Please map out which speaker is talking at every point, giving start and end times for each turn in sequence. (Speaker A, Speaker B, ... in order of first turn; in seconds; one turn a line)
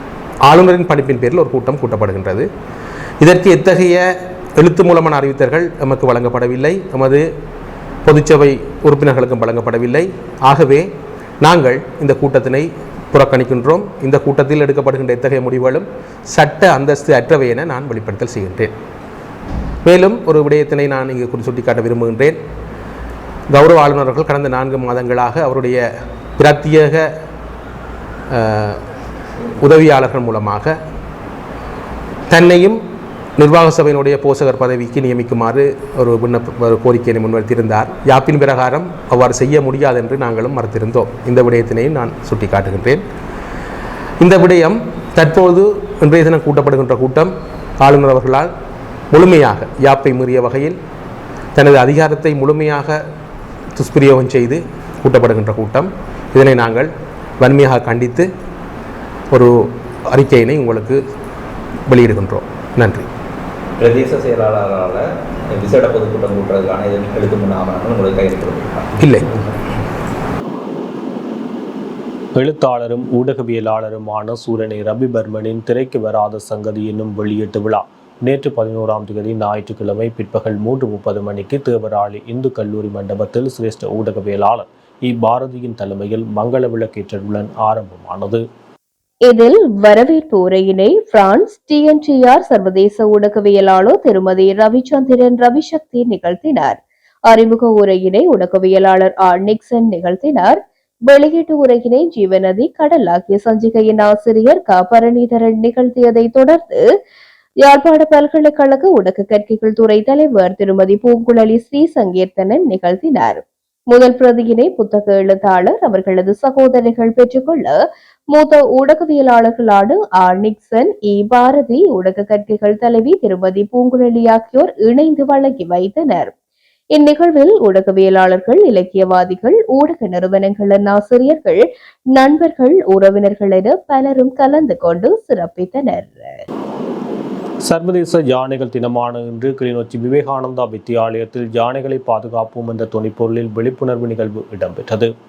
Speaker A: 0.5-2.5
Speaker A: 3.2-4.0
Speaker A: 4.6-7.2
Speaker A: 8.1-10.9
Speaker A: 11.4-18.7
Speaker A: 19.9-22.4
Speaker A: 23.5-25.9
Speaker A: 26.4-27.1
Speaker A: 28.3-28.8
Speaker A: 29.6-30.8
Speaker A: 32.3-32.8
Speaker A: 33.4-43.0
Speaker A: 44.2-48.5
Speaker A: 49.1-50.8
Speaker A: 51.5-53.0
Speaker A: 53.8-56.9
Speaker A: 57.4-58.3
Speaker A: 59.3-61.0
Speaker A: 61.9-63.1
Speaker B: 63.8-69.5
Speaker A: 69.0-69.3
Speaker C: 72.4-88.4
Speaker D: 89.3-96.8
Speaker D: 97.3-106.8
Speaker D: 107.6-117.7
Speaker D: 118.3-126.3
Speaker D: 126.9-131.6
Speaker D: 132.1-136.4
Speaker C: 137.6-145.1